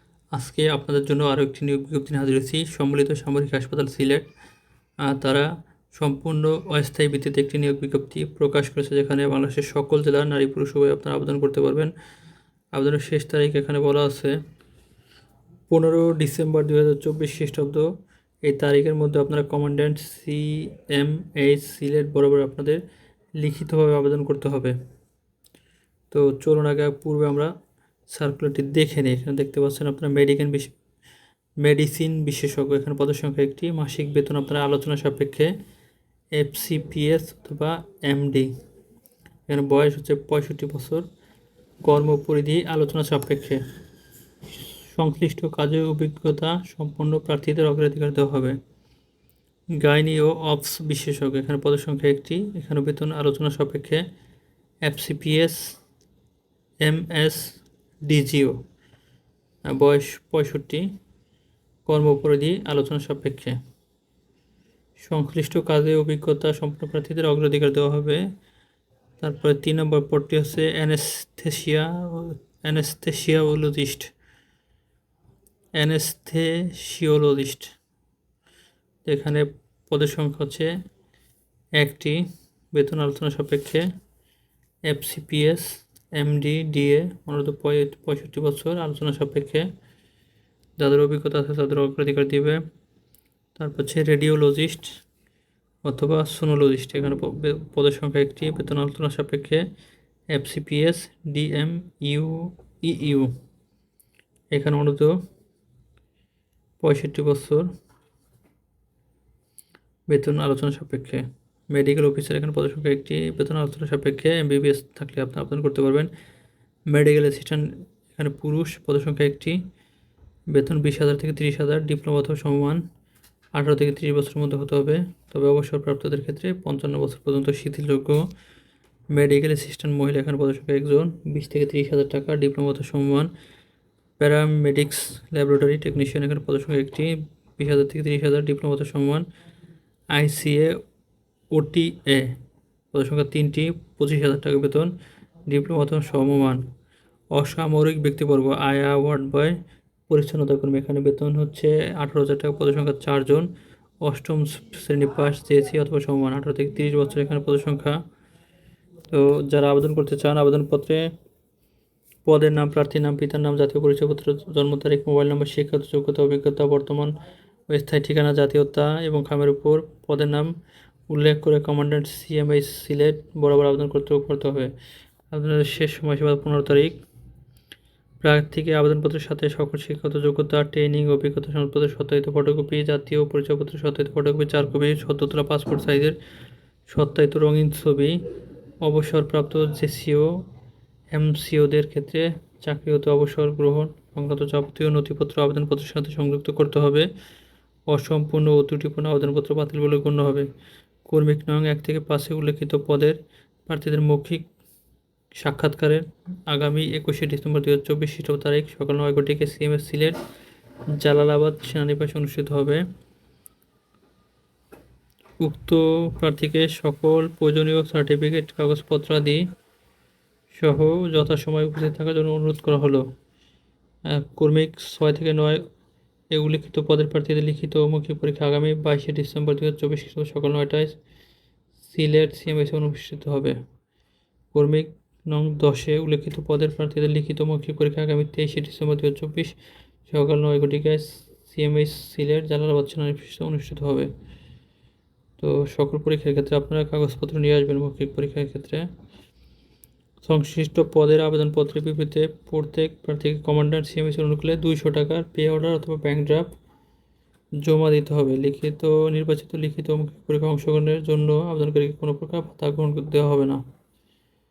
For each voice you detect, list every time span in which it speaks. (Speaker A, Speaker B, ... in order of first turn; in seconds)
Speaker A: 0.3-4.2, 5.0-11.9, 12.7-14.4, 15.7-17.9, 18.4-22.8, 23.4-24.7, 26.1-27.5, 28.1-30.7, 31.6-35.5, 36.4-38.5, 39.5-41.0, 41.8-43.6, 44.9-48.6, 49.8-54.0, 54.8-55.6, 56.8-58.6, 59.6-60.9, 61.9-63.6, 65.0-68.2, 69.2-74.1, 75.8-77.7, 79.0-80.7, 81.8-83.9, 84.8-89.7, 90.8-92.6, 93.5-94.9, 95.8-99.6, 100.3-103.3, 104.5-105.2, 106.8-107.7, 110.1-116.1, 116.9-119.6, 120.5-122.8, 123.5-128.2, 129.1-133.3, 134.2-139.2, 140.1-140.7, 141.5-142.4, 142.9-144.9, 145.4-146.6, 147.3-149.6, 150.1-153.5, 154.0-158.0, 159.1-161.1, 162.2-167.1, 167.7-170.5, 171.1-174.7, 175.3-177.0, 178.2-186.2, 186.9-188.2, 188.8-190.3, 191.1-197.1, 197.9-200.5, 201.1-204.4, 205.3-210.2, 210.9-212.8, 215.4-219.4, 220.5-223.1, 224.1-225.7, 226.3-230.9, 231.8-233.6, 234.5-239.5, 240.1-244.1, 245.4-248.9, 250.2-256.5, 257.6-263.6